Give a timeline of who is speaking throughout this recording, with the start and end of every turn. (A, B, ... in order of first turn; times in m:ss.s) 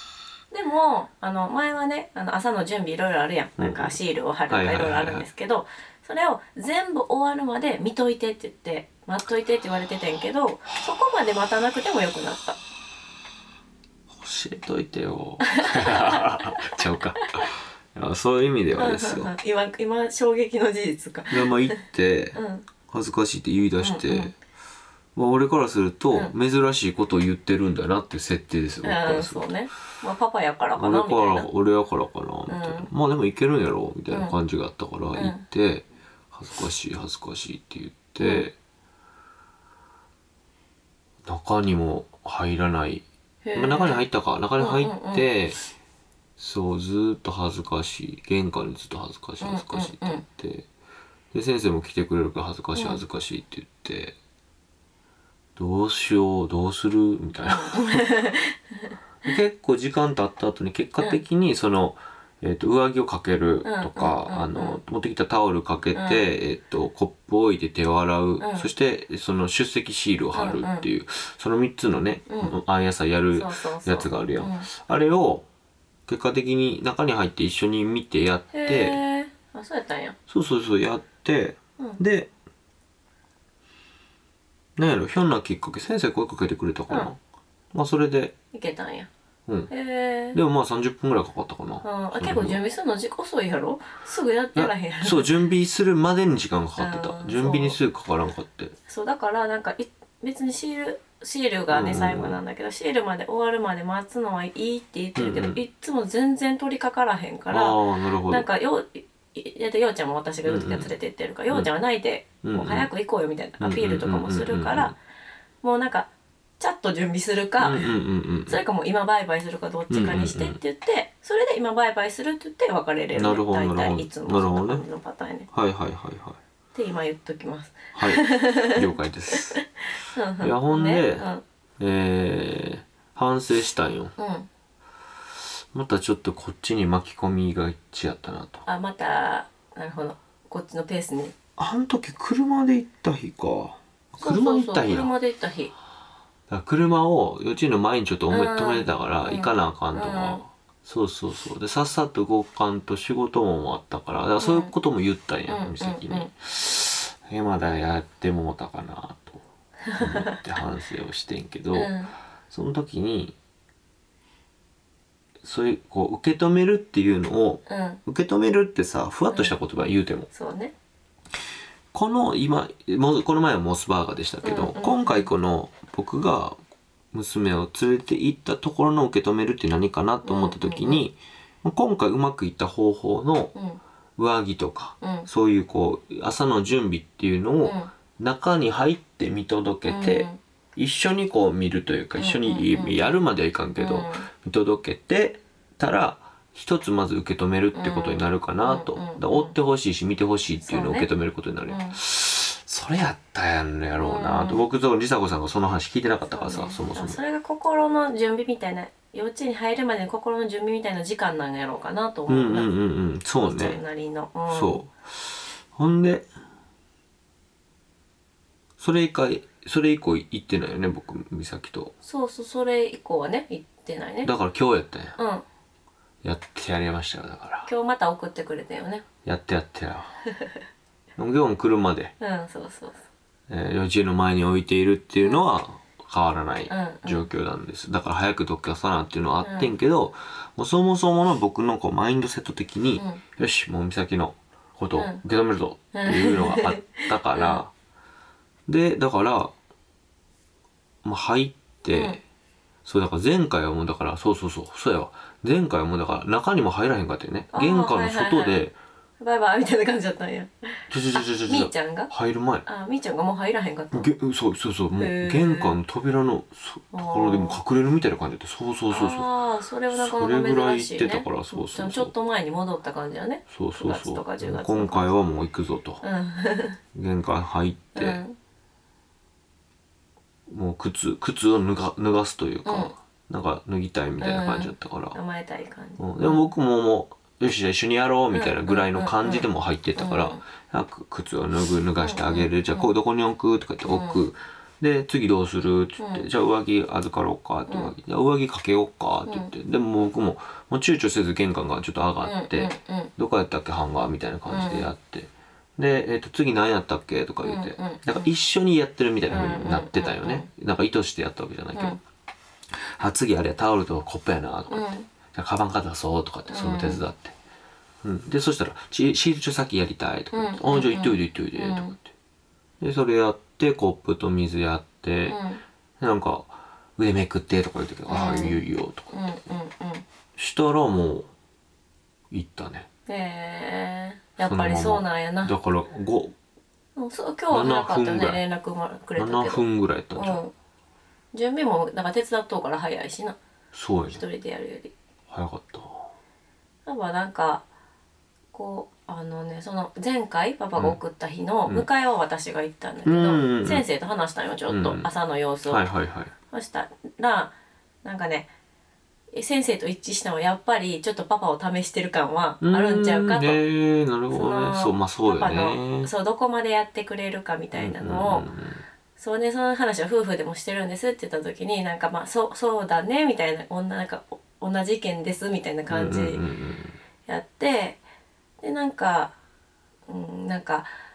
0:00.5-0:12.6 A
0:03.6-0:04.0 B
0:04.5-0:05.3 B
0:14.1-0:19.3 B
0:15.5-0:16.5 A
0:18.7-0:21.8 A
0:21.3-0:24.3 B
0:22.4-0:22.7 A
0:23.8-0:24.3 A
0:25.2-0:29.5 B
0:28.8-0:31.5 A
0:30.8-0:38.5 B
0:32.5-0:32.9 A
0:34.1-0:34.4 A
0:35.1-0:35.4 A
0:38.2-0:38.5 A
0:41.2-0:43.0 B
0:43.4-0:44.0 A
0:43.6-0:45.6 B
0:44.6-0:45.3 A
0:46.4-0:50.7 B
0:49.4-0:50.2 A
0:51.3-0:54.2 B
0:52.8-0:53.0 A
0:55.6-0:58.1 B
0:57.4-0:59.3 A
0:59.2-1:15.5 B
1:03.6-1:04.8 A
1:05.9-1:06.3 A
1:08.4-1:08.7 A
1:10.4-1:10.9 A
1:12.3-1:12.6 A
1:13.3-1:14.7 A
1:16.1-1:19.0 B
1:18.5-1:20.2 A
1:20.3-1:22.3 B
1:24.8-1:27.2 B
1:27.7-1:28.4 B
1:28.5-1:29.1 A
1:29.7-1:30.4 A
1:30.3-1:32.6 B
1:31.8-1:35.3 A
1:34.6-1:38.7 B
1:36.8-1:37.8 A
1:38.9-1:54.9 A
1:41.7-1:42.4 B
1:45.2-1:45.6 B
1:47.5-1:48.4 B
1:50.5-1:50.9 B
1:52.4-1:52.9 B
1:53.6-1:54.9 B
1:55.6-1:56.1 A
1:56.6-1:57.9 A
1:57.6-1:58.6 B
1:58.5-2:05.5 A
1:59.9-2:00.6 B
2:03.1-2:04.8 B
2:05.5-2:06.4 B
2:06.8-2:11.4 A
2:08.0-2:09.6 B
2:10.4-2:11.3 B
2:11.8-2:14.1 B
2:14.2-2:14.5 A
2:15.7-2:18.7 B
2:18.7-2:21.3 A
2:21.6-2:25.1 B
2:24.2-2:25.7 A
2:26.5-2:39.4 B
2:28.3-2:30.4 A
2:34.4-2:34.7 A
2:35.5-2:36.3 A
2:39.9-2:40.3 A
2:40.0-2:42.0 B
2:41.7-2:42.2 A
2:42.5-2:43.4 B
2:45.4-2:50.3 B
2:47.7-2:48.0 A
2:49.3-2:49.6 A
2:50.3-2:50.7 A
2:51.9-2:56.6 B
2:54.4-2:55.3 A
2:57.1-3:03.5 B
3:00.2-3:01.0 A
3:03.6-3:03.8 A
3:04.2-3:27.2 B
3:05.0-3:05.3 A
3:07.6-3:07.9 A
3:09.8-3:10.4 A
3:12.2-3:13.1 A
3:13.8-3:14.3 A
3:17.7-3:19.6 A
3:20.6-3:21.1 A
3:21.7-3:22.0 A
3:24.0-3:24.6 A
3:26.3-3:32.7 A
3:32.3-3:33.8 B
3:33.4-3:34.8 A
3:34.5-3:36.3 B
3:38.8-3:41.9 B
3:42.0-3:44.3 A
3:44.2-3:45.2 B
3:45.2-3:45.4 A
3:46.2-3:47.7 B
3:47.7-3:49.0 A
3:49.2-3:50.2 B
3:51.2-3:52.1 B
3:52.2-3:53.0 A
3:53.5-4:07.7 B
3:56.7-3:57.3 A
3:59.4-3:59.7 A
4:03.0-4:03.2 A
4:04.9-4:05.2 A
4:05.9-4:07.6 A
4:08.7-4:09.5 B
4:11.0-4:12.2 B
4:11.9-4:12.2 A
4:12.8-4:18.8 B
4:17.5-4:18.6 A
4:19.2-4:20.5 A
4:20.9-4:22.6 B
4:21.2-4:22.1 A
4:22.7-4:24.1 A
4:23.9-4:29.3 B
4:25.0-4:25.8 A
4:26.9-4:27.6 A
4:28.9-4:35.1 A
4:29.9-4:32.1 B
4:33.5-4:36.0 B
4:36.0-4:36.8 A
4:36.9-4:38.2 B
4:38.0-4:38.4 A
4:40.5-4:45.2 B
4:42.6-4:42.9 A
4:44.2-4:46.5 A
4:46.0-5:12.0 B
4:48.3-4:50.4 A
4:52.0-4:52.9 A
4:53.9-4:54.2 A
4:56.0-4:56.3 A
4:57.7-4:57.9 A
5:02.2-5:03.1 A
5:04.5-5:04.9 A
5:07.4-5:08.3 A
5:09.3-5:10.5 A
5:11.7-5:12.0 A
5:12.8-5:17.4 B
5:14.7-5:15.1 A
5:16.5-5:17.0 A
5:18.0-5:22.1 B
5:20.3-5:22.0 A
5:22.8-5:25.4 B
5:25.3-5:25.6 A
5:26.0-5:29.2 B
5:28.1-5:30.0 A
5:30.4-5:31.3 B
5:32.3-5:32.9 B
5:33.1-5:35.5 A
5:34.4-5:36.3 B
5:37.0-5:40.5 A
5:37.5-5:38.4 B
5:39.2-5:40.4 B
5:41.3-5:43.4 A
5:43.7-5:44.2 B
5:44.1-5:44.9 A
5:45.3-5:46.1 B
5:46.8-5:47.6 A
5:48.5-5:55.8 A
5:53.0-5:53.8 B
5:54.7-5:55.1 B
5:55.7-5:56.3 B
5:56.5-5:58.5 A
5:59.3-6:03.6 A
6:02.6-6:06.1 B
6:04.3-6:08.5 A
6:07.8-6:08.8 B
6:09.2-6:16.4 A
6:15.9-6:17.0 B
6:17.3-6:18.0 A
6:18.6-6:19.3 A
6:20.1-6:20.9 A